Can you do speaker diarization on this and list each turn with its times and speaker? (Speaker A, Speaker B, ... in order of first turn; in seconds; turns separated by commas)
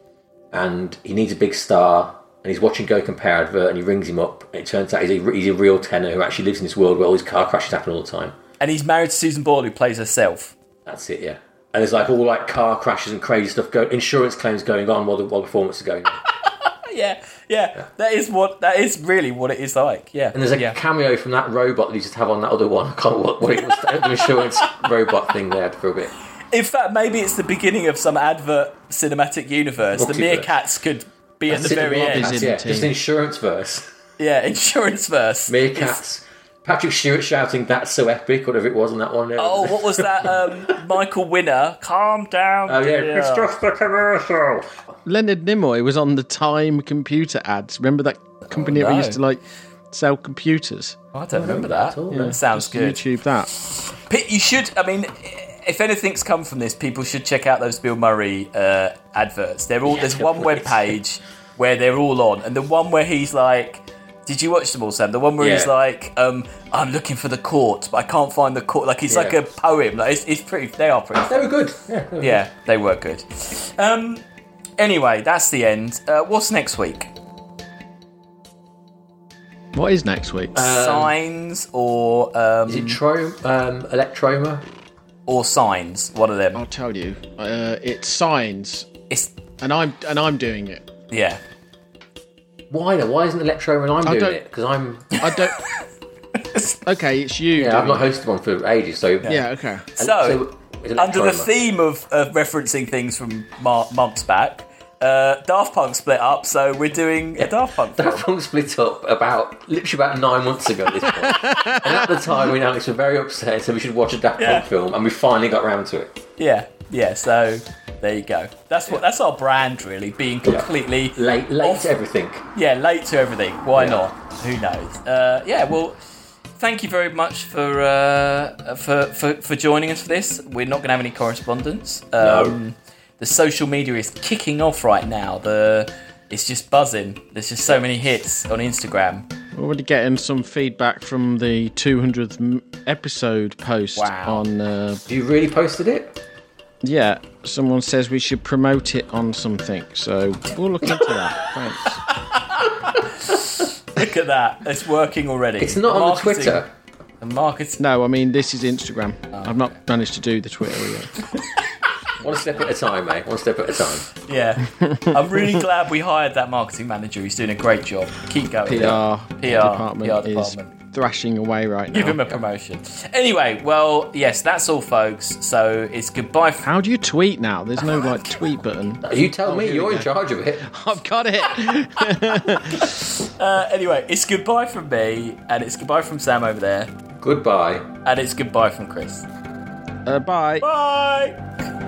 Speaker A: 0.5-8.3, Speaker B: 8.6-10.6, Speaker A: 10.9-16.2, Speaker B: 16.3-20.8, Speaker A: 20.3-26.1, Speaker B: 26.5-32.4, Speaker A: 30.0-30.5, Speaker A: 31.5-33.9, Speaker C: 31.5-32.9, Speaker B: 34.2-36.0, Speaker A: 35.5-40.8, Speaker B: 39.4-43.5, Speaker A: 42.7-44.8, Speaker C: 45.0-51.0, Speaker B: 48.4-49.2, Speaker B: 51.1-71.4, Speaker A: 51.3-52.4, Speaker C: 52.1-53.5, Speaker A: 59.9-60.9, Speaker A: 65.4-65.7, Speaker A: 69.1-69.4, Speaker A: 71.2-72.5, Speaker B: 72.2-74.3, Speaker B: 74.8-77.1, Speaker C: 79.7-80.7, Speaker A: 80.5-81.1, Speaker B: 80.6-83.0, Speaker A: 82.7-84.7, Speaker B: 85.3-86.6, Speaker C: 86.5-88.9, Speaker C: 89.6-90.9, Speaker B: 91.1-91.4, Speaker A: 92.7-95.3, Speaker C: 94.0-94.4, Speaker C: 95.2-95.5, Speaker B: 95.2-95.9, Speaker B: 96.5-96.8, Speaker C: 96.8-98.1, Speaker A: 97.5-99.4, Speaker C: 99.3-99.9, Speaker B: 100.0-100.4, Speaker A: 100.0-101.5, Speaker B: 101.0-108.2, Speaker A: 107.4-116.1, Speaker C: 111.0-112.3, Speaker B: 114.4-114.7, Speaker B: 116.4-121.9, Speaker A: 120.5-122.5, Speaker B: 122.5-126.0, Speaker A: 123.8-124.0, Speaker B: 126.6-139.3, Speaker A: 132.2-132.6, Speaker C: 139.6-145.0, Speaker B: 144.0-144.4, Speaker A: 145.1-146.1, Speaker C: 146.8-152.0, Speaker B: 152.1-156.6, Speaker A: 155.6-156.7, Speaker B: 157.2-157.8, Speaker C: 157.8-161.2, Speaker B: 159.3-159.6, Speaker B: 161.2-161.7, Speaker A: 162.2-164.1, Speaker B: 164.2-170.7, Speaker C: 164.7-165.7, Speaker C: 168.7-172.2, Speaker B: 171.9-176.7, Speaker C: 176.7-180.1, Speaker A: 179.1-180.8, Speaker C: 180.6-183.0, Speaker B: 182.7-186.9, Speaker A: 187.2-187.9, Speaker B: 188.1-189.2, Speaker C: 190.1-190.7, Speaker B: 190.6-191.4